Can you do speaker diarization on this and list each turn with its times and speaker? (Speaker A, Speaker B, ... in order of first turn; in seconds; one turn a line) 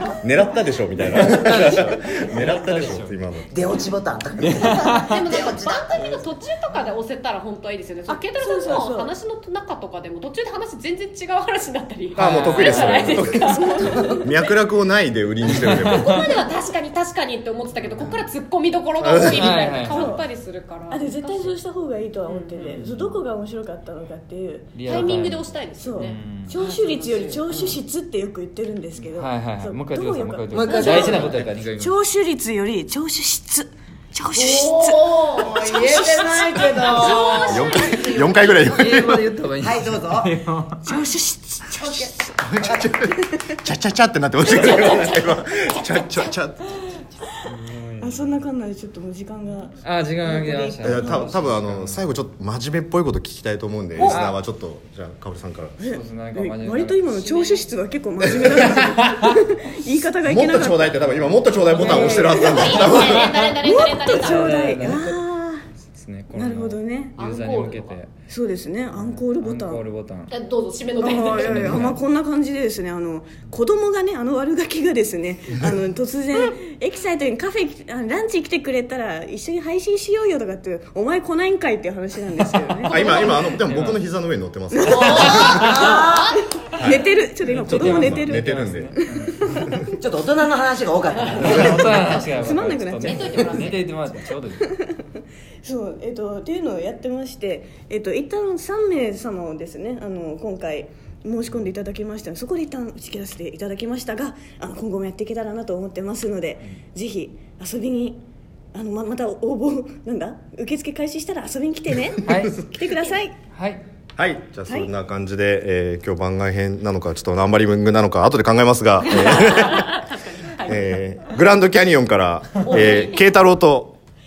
Speaker A: 0.2-3.5
Speaker B: 1.1-3.1
Speaker C: 3.5-6.2
Speaker B: 4.4-5.1
Speaker D: 5.0-14.2
Speaker E: 8.1-9.1
Speaker B: 12.2-13.4
Speaker A: 12.2-13.5
Speaker E: 13.5-14.2
Speaker A: 14.2-16.3
Speaker B: 15.5-16.3
Speaker D: 15.7-21.5
Speaker B: 17.9-18.1
Speaker A: 19.0-19.5
Speaker B: 19.3-20.1
Speaker E: 19.9-20.2
Speaker E: 20.9-25.2
Speaker D: 22.2-22.7
Speaker B: 22.6-23.2
Speaker B: 24.8-26.6
Speaker D: 24.8-26.2
Speaker E: 25.8-38.0
Speaker C: 26.6-27.8
Speaker B: 29.0-31.9
Speaker C: 30.5-31.5
Speaker D: 30.6-31.1
Speaker C: 34.3-40.3
Speaker A: 37.3-39.3
Speaker B: 38.6-40.8
Speaker E: 40.8-41.8
Speaker C: 41.7-42.9
Speaker A: 42.4-46.8
Speaker B: 47.5-48.5
Speaker E: 48.0-51.4
Speaker B: 49.8-52.1
Speaker A: 50.8-55.8
Speaker E: 54.0-54.2
Speaker B: 54.0-54.4
Speaker B: 55.8-57.4
Speaker E: 55.8-60.9
Speaker D: 57.3-57.6
Speaker B: 58.6-59.4
Speaker A: 60.2-63.5
Speaker B: 60.9-63.1
Speaker E: 61.8-65.7
Speaker D: 61.9-64.9
Speaker B: 64.0-68.1
Speaker E: 66.3-67.2
Speaker D: 67.2-68.0
Speaker E: 68.3-69.8
Speaker B: 68.9-70.3
Speaker D: 70.3-71.9
Speaker E: 71.0-83.5
Speaker B: 71.3-72.0
Speaker B: 82.8-84.0
Speaker A: 82.9-85.6
Speaker E: 84.7-86.0
Speaker D: 84.9-86.4
Speaker C: 85.2-86.4
Speaker B: 85.4-85.9
Speaker E: 86.7-89.9
Speaker A: 86.8-87.0
Speaker B: 87.5-89.6
Speaker A: 87.5-88.9
Speaker A: 89.5-89.7
Speaker C: 90.0-92.0
Speaker B: 91.3-94.8
Speaker E: 92.0-93.8
Speaker D: 93.0-93.8
Speaker E: 94.6-95.0
Speaker E: 95.6-108.2
Speaker E: 108.7-113.3
Speaker B: 112.2-112.6
Speaker B: 113.5-113.8
Speaker A: 114.2-120.0
Speaker E: 114.7-114.9
Speaker D: 119.4-120.7
Speaker A: 120.6-124.0
Speaker D: 122.7-123.2